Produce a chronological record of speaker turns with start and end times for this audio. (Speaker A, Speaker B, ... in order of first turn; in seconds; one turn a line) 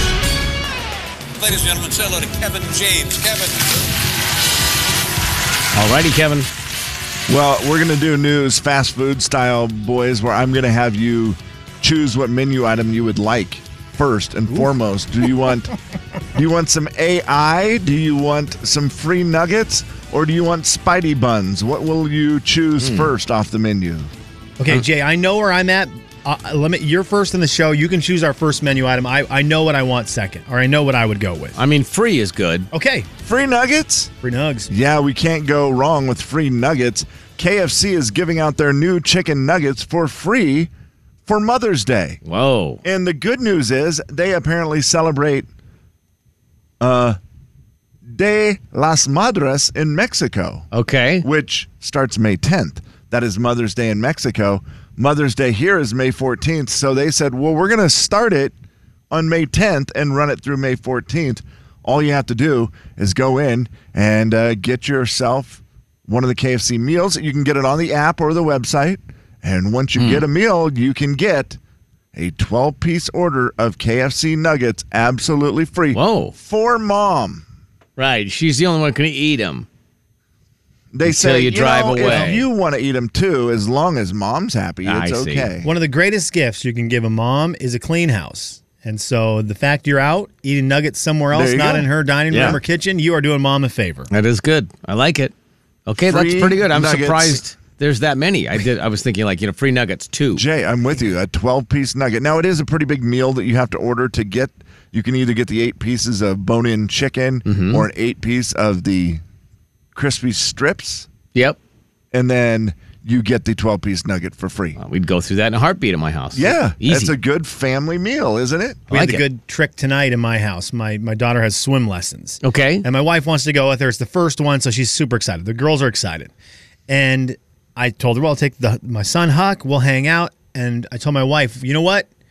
Speaker A: 1.4-3.8
Speaker B: 5.7-6.5
Speaker C: 7.3-15.7
Speaker C: 16.3-24.1
Speaker B: 22.8-23.1
Speaker D: 24.6-31.6
Speaker B: 31.6-32.7
Speaker D: 32.7-33.1
Speaker C: 33.2-34.1
Speaker D: 34.2-34.7
Speaker C: 34.7-40.7
Speaker C: 41.3-42.2
Speaker B: 42.2-42.8
Speaker C: 42.8-45.5
Speaker C: 46.8-47.2
Speaker C: 48.1-50.7
Speaker B: 50.7-51.2
Speaker C: 51.2-58.5
Speaker C: 59.1-71.6
Speaker B: 70.0-70.2
Speaker C: 72.1-77.4
Speaker B: 75.9-76.3
Speaker B: 78.0-79.7
Speaker C: 80.9-85.7
Speaker B: 81.0-82.4
Speaker D: 82.1-82.4
Speaker B: 84.8-85.5
Speaker D: 85.6-94.1
Speaker C: 91.3-91.9
Speaker B: 92.3-92.6
Speaker B: 94.1-95.3
Speaker B: 95.9-100.4
Speaker C: 96.0-97.4
Speaker C: 100.3-109.2
Speaker B: 107.5-107.9
Speaker C: 110.0-111.1
Speaker C: 112.1-114.8
Speaker B: 114.8-117.1
Speaker C: 116.3-118.9
Speaker D: 118.9-126.3
Speaker B: 118.9-119.2
Speaker B: 122.4-122.8
Speaker D: 126.9-132.1